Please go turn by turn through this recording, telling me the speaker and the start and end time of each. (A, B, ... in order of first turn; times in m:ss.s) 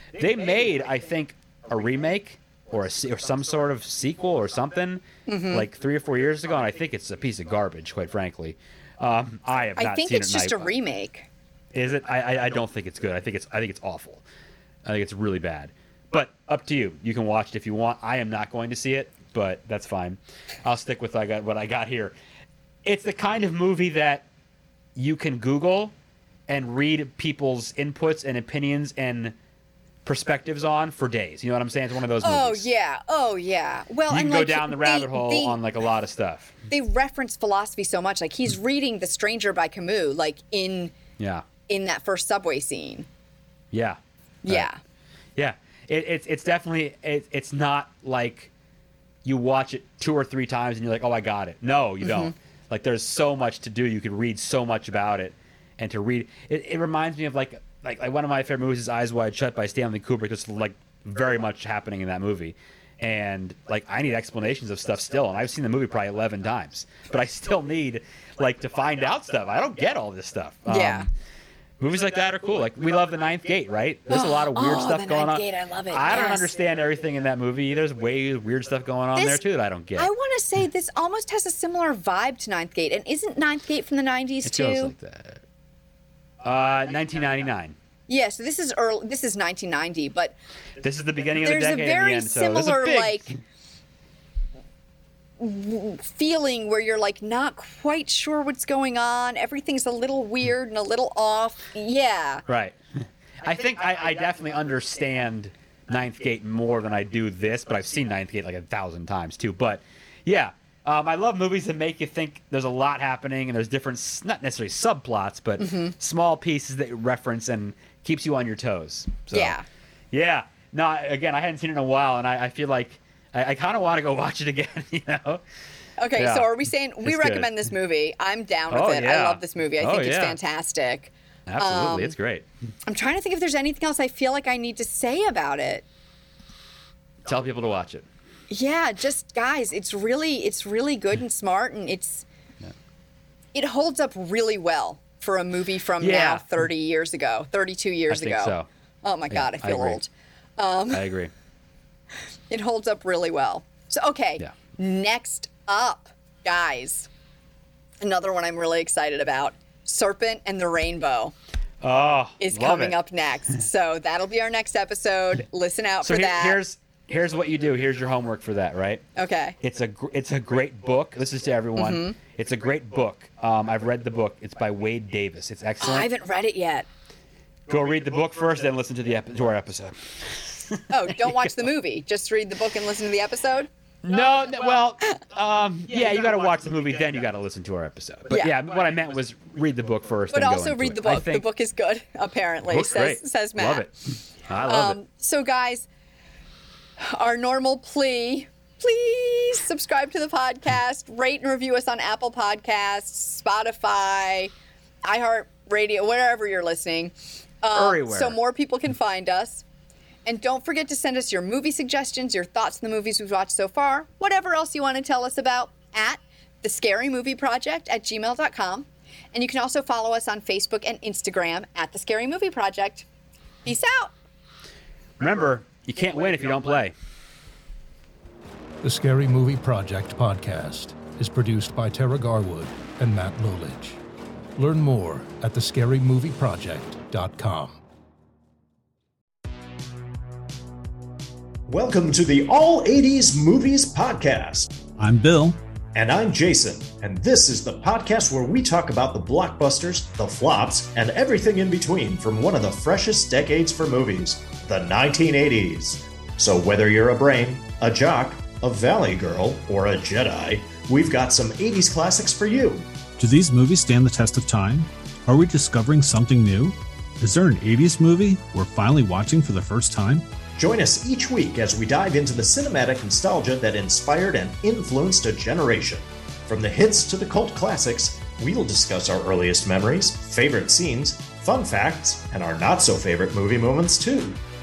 0:00.1-0:10.8 A
0:05.3-0:05.7 B
0:09.8-0:11.3 B
0:11.7-0:14.2 A
0:14.8-0:22.2 A
0:22.8-0:24.3 A
0:25.0-0:25.9 A
0:26.5-0:29.4 A
0:30.0-0:32.7 A
0:32.2-0:35.6 B
0:34.1-0:36.6 A
0:36.7-0:40.9 B
0:41.2-0:41.4 A
0:41.7-0:43.1 B
0:43.7-0:44.7 A
0:44.4-0:44.8 B
0:45.4-0:48.5 A
0:49.2-1:11.1 A
0:52.0-0:52.3 B
1:10.7-1:11.1 B
1:11.8-1:20.1 A
1:14.1-1:16.5 B
1:19.2-1:19.4 B
1:20.0-1:24.9 B
1:24.4-1:25.4 A
1:26.4-1:27.8 A
1:28.1-1:30.4 B
1:30.8-1:33.4 A
1:31.4-1:33.3 B
1:35.4-1:42.4 B
1:42.5-1:59.6 A
1:55.6-1:56.0 B
1:59.3-1:59.7 B
2:00.1-2:05.4 A
2:06.0-2:12.2 B
2:06.2-2:06.5 A
2:07.0-2:07.5 A
2:08.7-2:10.4 A
2:11.5-2:12.5 A
2:12.9-2:15.8 B
2:17.2-2:18.1 A
2:18.5-2:22.2 B
2:23.5-2:31.1 B
2:26.0-2:26.4 A
2:28.1-2:28.7 A
2:29.3-2:30.0 A
2:30.9-2:31.3 A
2:32.5-2:37.1 B
2:38.0-2:41.4 B
2:41.8-2:43.0 A
2:42.4-2:46.6 B
2:46.0-2:49.0 A
2:49.2-2:49.6 B
2:49.6-2:56.1 A
2:51.8-2:52.2 B
2:55.8-2:56.9 B
2:57.7-3:01.3 A
3:00.9-3:03.7 B
3:04.0-3:11.5 A
3:08.3-3:08.6 B
3:10.3-3:13.9 B
3:12.7-3:15.0 A
3:14.6-3:15.9 B
3:17.0-3:24.5 B
3:25.0-3:29.6 B
3:27.7-3:28.4 A
3:30.2-3:43.1 B
3:43.6-3:44.1 B
3:45.2-3:46.9 A
3:48.8-3:54.0 C
3:54.6-3:57.8 C
4:01.7-4:04.7 D
4:05.0-4:05.6 E
4:05.9-4:22.9 D
4:23.2-4:30.3 E
4:30.6-4:44.4 D